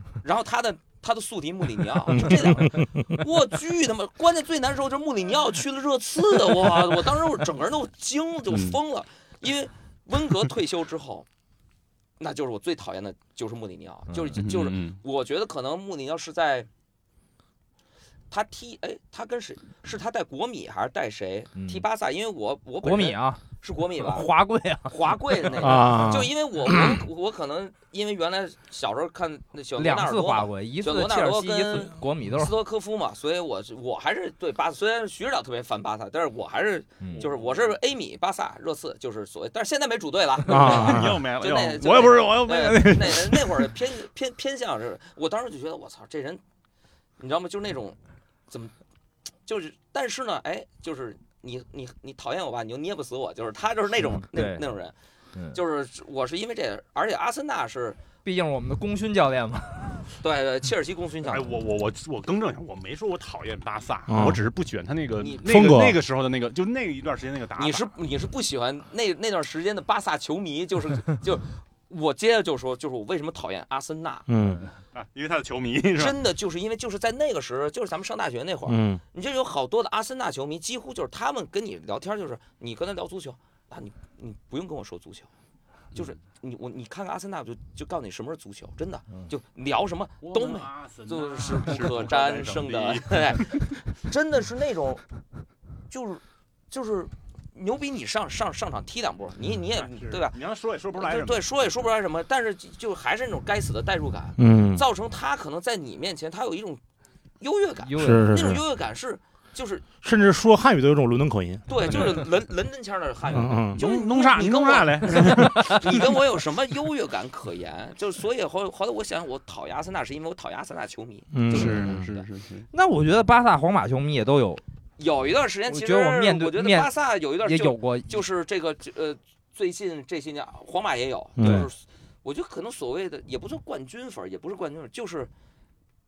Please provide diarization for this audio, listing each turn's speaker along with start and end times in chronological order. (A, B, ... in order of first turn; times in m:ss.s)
0:00.2-0:11.2 A
0:02.1-0:03.1 B
0:08.5-0:08.8 C
0:12.2-0:16.7 A
0:14.1-0:14.4 D
0:14.4-0:15.0 C
0:18.3-0:24.3 A
0:21.6-0:21.8 D
0:22.8-0:23.4 D
0:24.0-0:24.9 D
0:24.9-0:46.4 A
0:25.5-0:27.0 B
0:29.8-0:32.5 D
0:37.0-0:37.2 D
0:40.4-0:41.2 B
0:40.5-0:43.7 C
0:47.2-0:48.0 A
0:49.4-0:54.9 A
0:54.3-0:54.6 D
0:55.5-0:58.0 A
0:58.2-1:00.1 D
1:00.2-1:01.6 A
1:01.3-1:07.9 C
1:04.1-1:04.4 B
1:05.2-1:05.4 A
1:05.4-1:06.0 B
1:07.6-1:14.2 A
1:14.3-1:14.7 B
1:14.4-1:14.7 D
1:14.9-1:16.2 C
1:16.0-1:25.3 A
1:18.7-1:19.0 B
1:25.9-1:35.0 A
1:30.2-1:33.7 C
1:35.9-1:40.4 A
1:39.8-1:41.7 C
1:40.9-1:46.8 A
1:44.4-1:44.8 B
1:47.4-1:49.8 A
1:47.8-1:48.3 D
1:48.0-1:48.6 B
1:50.0-1:52.1 B
1:51.7-2:02.2 A
1:53.3-1:53.8 B
1:53.7-1:56.2 C
2:01.3-2:02.1 B
2:01.5-2:02.7 C
2:02.7-2:04.6 D
2:05.0-2:15.3 A
2:05.7-2:06.9 D
2:07.4-2:08.2 D
2:11.4-2:11.7 B